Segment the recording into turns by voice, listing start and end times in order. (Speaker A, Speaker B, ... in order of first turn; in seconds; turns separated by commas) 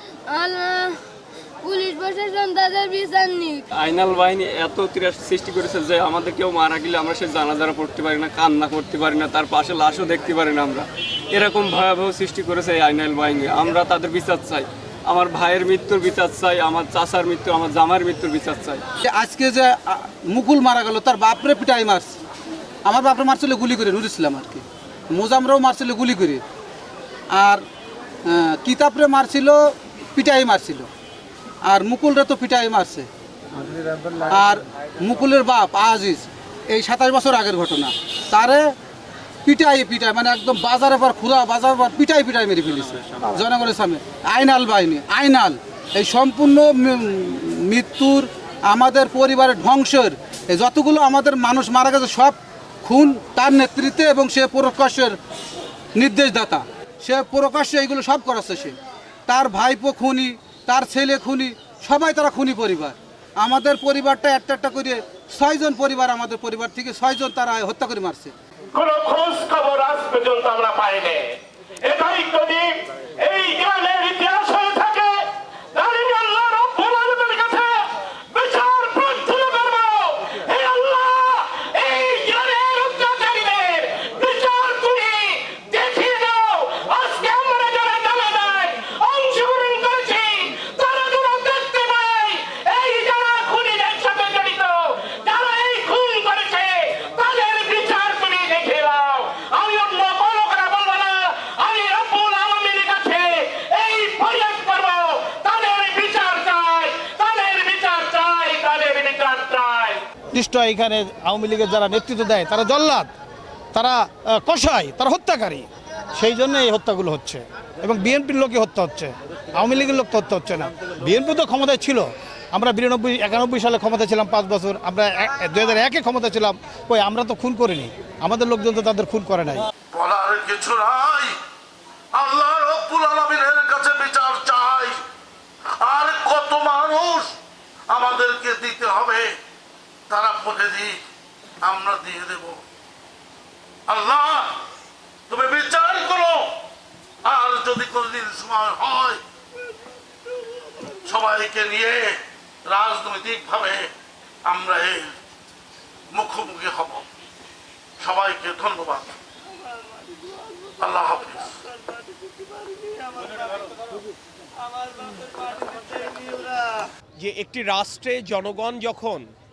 Speaker A: 0.3-1.0, Speaker A: 1.6-3.6, Speaker B: 3.8-18.8, Speaker C: 19.0-22.1, Speaker C: 22.9-26.4, Speaker C: 27.3-27.6, Speaker C: 28.3-30.9, Speaker C: 31.7-33.1, Speaker C: 34.3-38.6, Speaker C: 39.5-55.2, Speaker C: 56.0-68.3, Speaker D: 68.8-71.3, Speaker D: 71.8-72.7, Speaker D: 73.2-75.1, Speaker D: 75.8-77.7, Speaker D: 78.3-110.0, Speaker E: 110.3-113.1, Speaker E: 113.7-129.7, Speaker F: 129.9-131.4, Speaker F: 132.1-135.0, Speaker F: 135.8-137.3, Speaker F: 137.9-139.3, Speaker F: 140.1-141.0, Speaker F: 141.6-142.6, Speaker F: 143.9-144.6, Speaker F: 145.3-146.5, Speaker F: 147.2-149.2, Speaker F: 151.0-153.9, Speaker F: 154.4-155.1, Speaker F: 156.1-157.1, Speaker F: 158.0-159.2, Speaker F: 160.8-161.6, Speaker G: 167.2-169.2